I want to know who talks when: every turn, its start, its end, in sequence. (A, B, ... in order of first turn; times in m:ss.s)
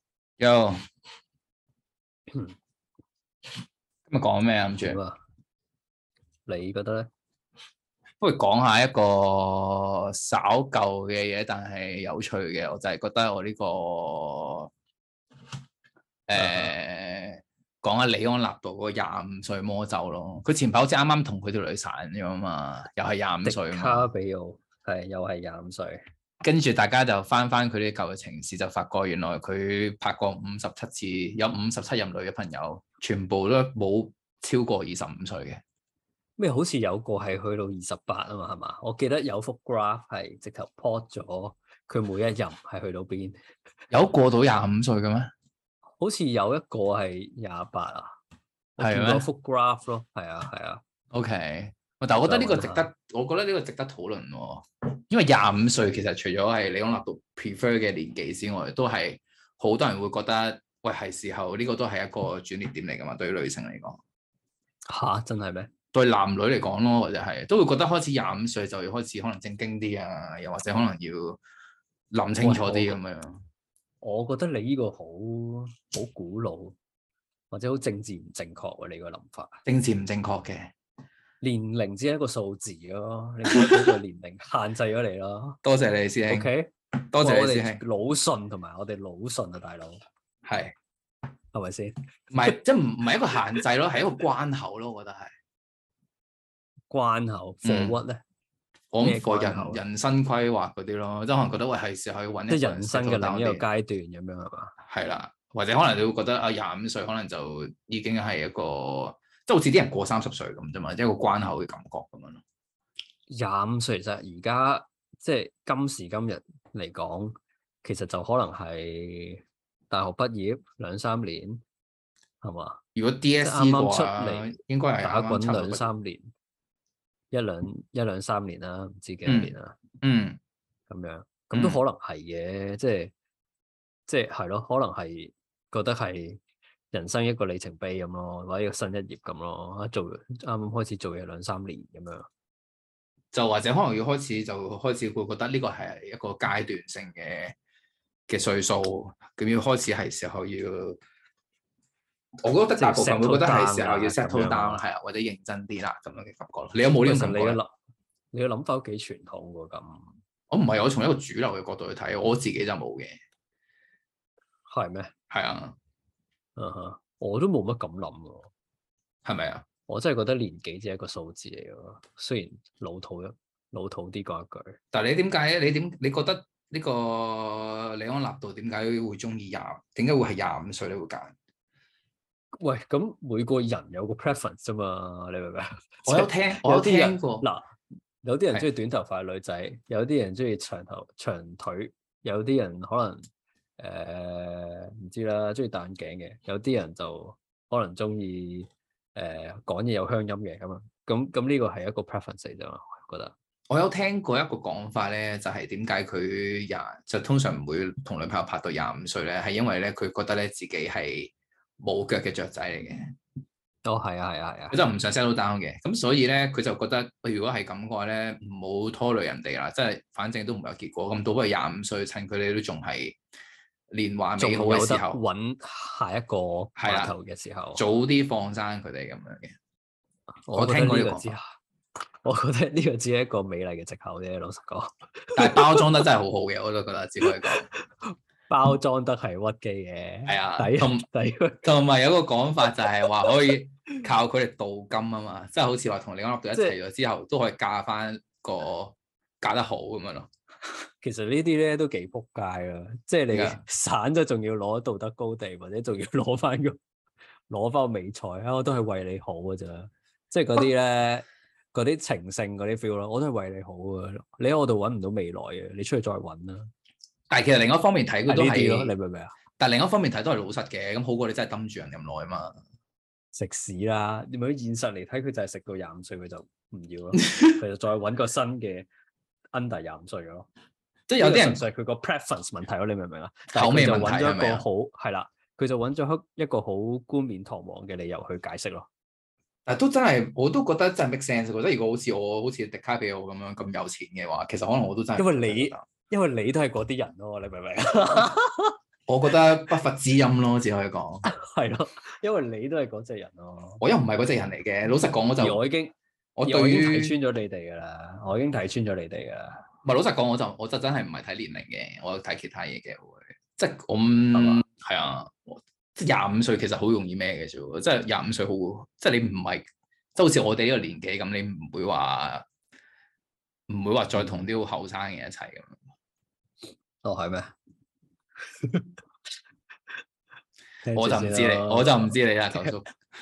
0:00.4-0:00.8 A
0:02.3-0:02.5 B
0:04.1-0:05.0 A
0:04.7-0:05.2 B
0:06.5-0:07.1 B
0:08.2-0:14.7 A
0:16.3-0:24.1 A
0:16.4-0:16.8 B
0:23.4-0:26.0 B
0:26.4-0:35.6 A
0:36.4-0:43.4 B
0:43.9-0:45.3 A
0:46.0-0:48.1 B
0:48.8-0:50.8 B
0:48.8-0:49.3 A
0:51.1-1:04.0 A
0:52.2-0:52.9 B
1:04.9-1:05.7 B
1:05.9-1:11.4 A
1:12.1-1:13.4 A
1:12.4-1:13.0 B
1:14.0-1:16.8 B
1:17.5-1:19.6 B
1:19.6-1:20.7 A
1:21.4-1:25.6 B
1:23.5-1:24.0 A
1:25.6-1:26.5 A
1:26.3-1:30.0 B
1:27.1-1:27.8 A
1:30.4-1:30.7 A
1:31.5-1:32.5 B
1:32.3-1:35.3 A
1:36.9-1:38.2 B
1:37.6-1:38.0 A
1:38.9-1:43.6 A
1:39.0-1:39.8 B
1:42.5-1:44.7 B
1:44.9-1:52.4 A
1:53.3-2:01.6 B
2:02.4-2:02.8 B
2:02.9-2:05.8 A
2:03.4-2:06.3 B
2:07.3-2:09.8 B
2:09.2-2:10.4 A
2:10.9-2:13.1 B
2:11.5-2:11.8 A
2:14.1-2:16.4 B
2:16.9-2:22.3 B
2:23.3-2:27.5 A
2:28.3-2:31.0 A
2:32.4-2:37.6 A
2:32.8-2:34.8 B
2:37.0-2:37.7 B
2:38.3-2:40.1 B
2:40.5-2:43.2 A
2:44.7-2:45.1 B
2:45.3-2:45.8 A
2:46.6-2:48.5 B
2:49.2-2:49.6 A
2:49.9-2:54.8 B
2:54.9-3:01.3 A
3:02.5-3:07.7 B
3:06.0-3:07.5 A
3:08.2-3:13.2 B
3:13.8-3:23.3 B
3:23.7-3:33.1 A
3:33.8-3:34.8 B
3:34.7-3:43.2 A
3:43.9-3:45.2 A
3:44.4-3:47.8 B
3:46.8-3:47.1 A
3:47.8-3:49.5 A
3:50.4-3:51.4 B
3:50.5-3:51.3 A
3:52.2-3:56.0 B
3:55.4-3:57.6 A
3:57.2-3:57.5 B
3:58.0-4:01.7 B
4:00.2-4:01.0 A
4:01.6-4:10.3 A
4:11.0-4:16.8 B
4:13.3-4:13.6 A
4:17.5-4:26.7 B
4:27.3-4:28.9 A
4:28.3-4:29.3 B
4:29.6-4:32.6 A
4:33.3-4:38.9 B
4:39.5-4:40.5 B
4:41.1-4:41.6 A
4:41.2-4:48.9 B
4:43.5-4:44.6 A
4:49.6-4:55.8 A
4:55.2-4:58.8 B
4:59.1-5:01.2 A
5:01.2-5:03.8 B
5:03.8-5:05.6 A
5:05.4-5:09.6 B
5:06.4-5:07.1 A
5:09.8-5:22.4 A
5:14.3-5:14.6 B
5:23.7-5:25.8 A
5:24.1-5:24.4 B
5:27.0-5:27.5 B
5:28.6-5:28.9 B
5:30.8-5:32.7 B
5:30.9-5:32.9 A